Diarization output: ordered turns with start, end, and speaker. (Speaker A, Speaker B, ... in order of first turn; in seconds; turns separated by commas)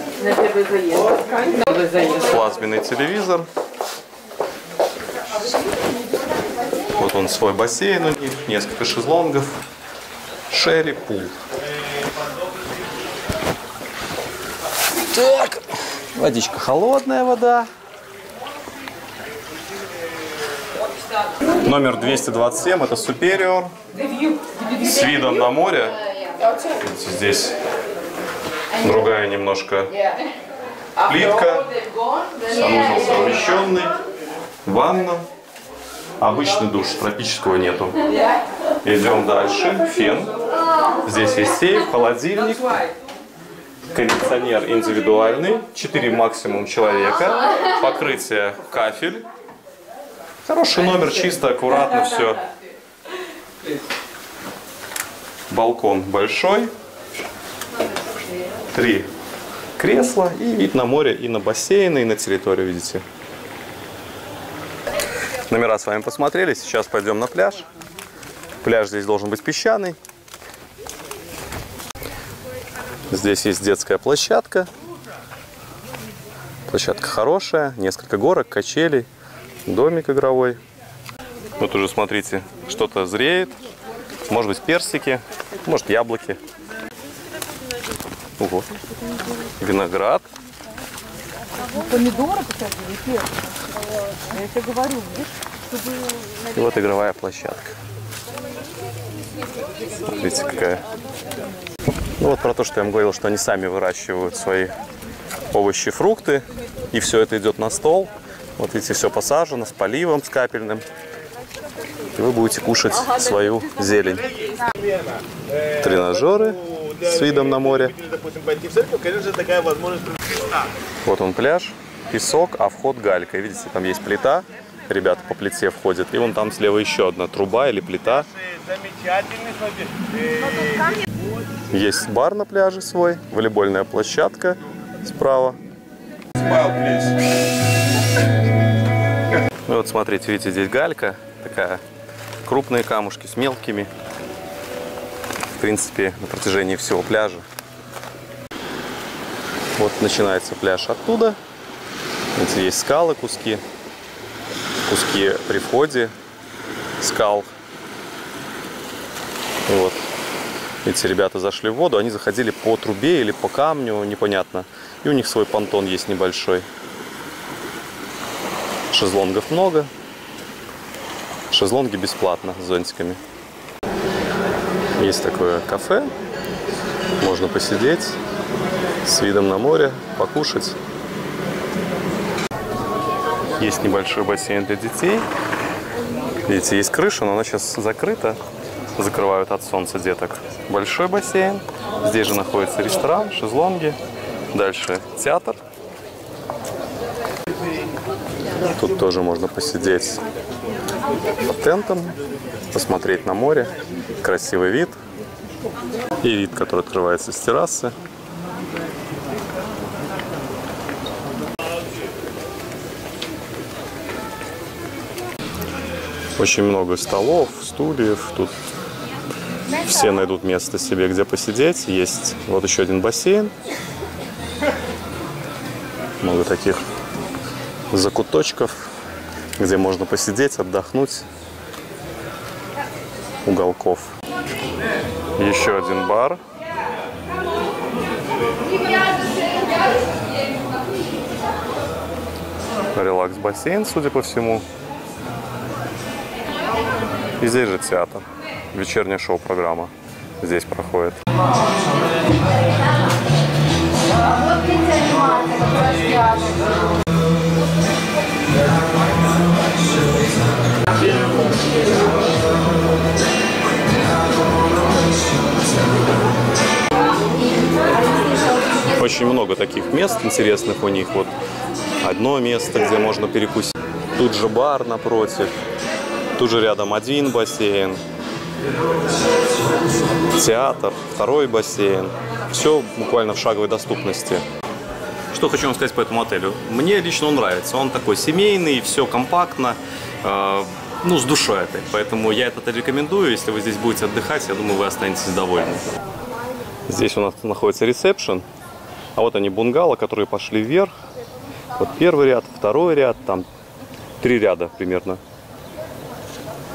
Speaker A: 0.1-1.9, Speaker B: 1.9-3.5, Speaker B: 7.0-9.6, Speaker B: 10.5-11.4, Speaker B: 15.0-17.7, Speaker B: 21.6-23.7, Speaker A: 24.1-24.6, Speaker B: 24.6-27.6, Speaker B: 28.8-30.1, Speaker B: 31.0-31.8, Speaker B: 32.4-34.0, Speaker B: 34.6-35.3, Speaker B: 36.2-38.0, Speaker B: 38.8-40.3, Speaker B: 41.0-42.8, Speaker B: 43.9-49.3, Speaker B: 50.5-52.5, Speaker B: 55.5-56.7, Speaker B: 58.7-59.1, Speaker B: 59.8-63.0, Speaker B: 65.5-67.7, Speaker B: 68.6-70.0, Speaker B: 73.1-74.7, Speaker B: 76.7-79.1, Speaker B: 79.7-80.6, Speaker B: 81.6-83.7, Speaker B: 84.3-86.4, Speaker B: 88.4-90.3, Speaker A: 91.6-93.3, Speaker A: 94.1-96.0, Speaker B: 96.4-97.8, Speaker B: 100.0-100.8, Speaker B: 102.2-104.7, Speaker B: 105.5-110.8, Speaker B: 112.2-114.3, Speaker B: 115.7-118.0, Speaker C: 118.0-120.6, Speaker B: 121.0-128.3, Speaker C: 128.7-130.9, Speaker B: 131.7-135.6, Speaker B: 136.5-137.1, Speaker B: 139.7-141.8, Speaker B: 142.4-143.9, Speaker B: 145.6-147.4, Speaker B: 149.8-151.4, Speaker B: 152.4-153.6, Speaker B: 154.9-156.1, Speaker B: 157.0-157.5, Speaker B: 159.7-160.1, Speaker B: 160.8-166.7, Speaker B: 168.9-169.9, Speaker B: 171.5-173.2, Speaker B: 175.0-176.1, Speaker B: 177.2-178.2, Speaker B: 179.0-180.8, Speaker B: 183.6-185.3, Speaker B: 186.5-188.4, Speaker B: 189.0-194.0, Speaker B: 194.5-195.6, Speaker B: 198.7-200.2, Speaker B: 201.4-202.2, Speaker B: 202.7-205.0, Speaker B: 206.2-207.9, Speaker B: 216.4-218.5, Speaker B: 219.7-223.5, Speaker B: 226.2-226.8, Speaker B: 227.9-228.9, Speaker B: 229.6-231.2, Speaker B: 233.4-234.1, Speaker B: 235.4-236.4, Speaker B: 242.9-244.6, Speaker B: 247.4-251.2, Speaker A: 254.3-256.6, Speaker B: 268.9-271.3, Speaker B: 272.0-275.5, Speaker B: 276.4-278.0, Speaker B: 280.3-284.4, Speaker B: 285.3-295.9, Speaker B: 296.9-298.4, Speaker B: 299.1-300.9, Speaker B: 301.8-303.5, Speaker B: 304.2-305.2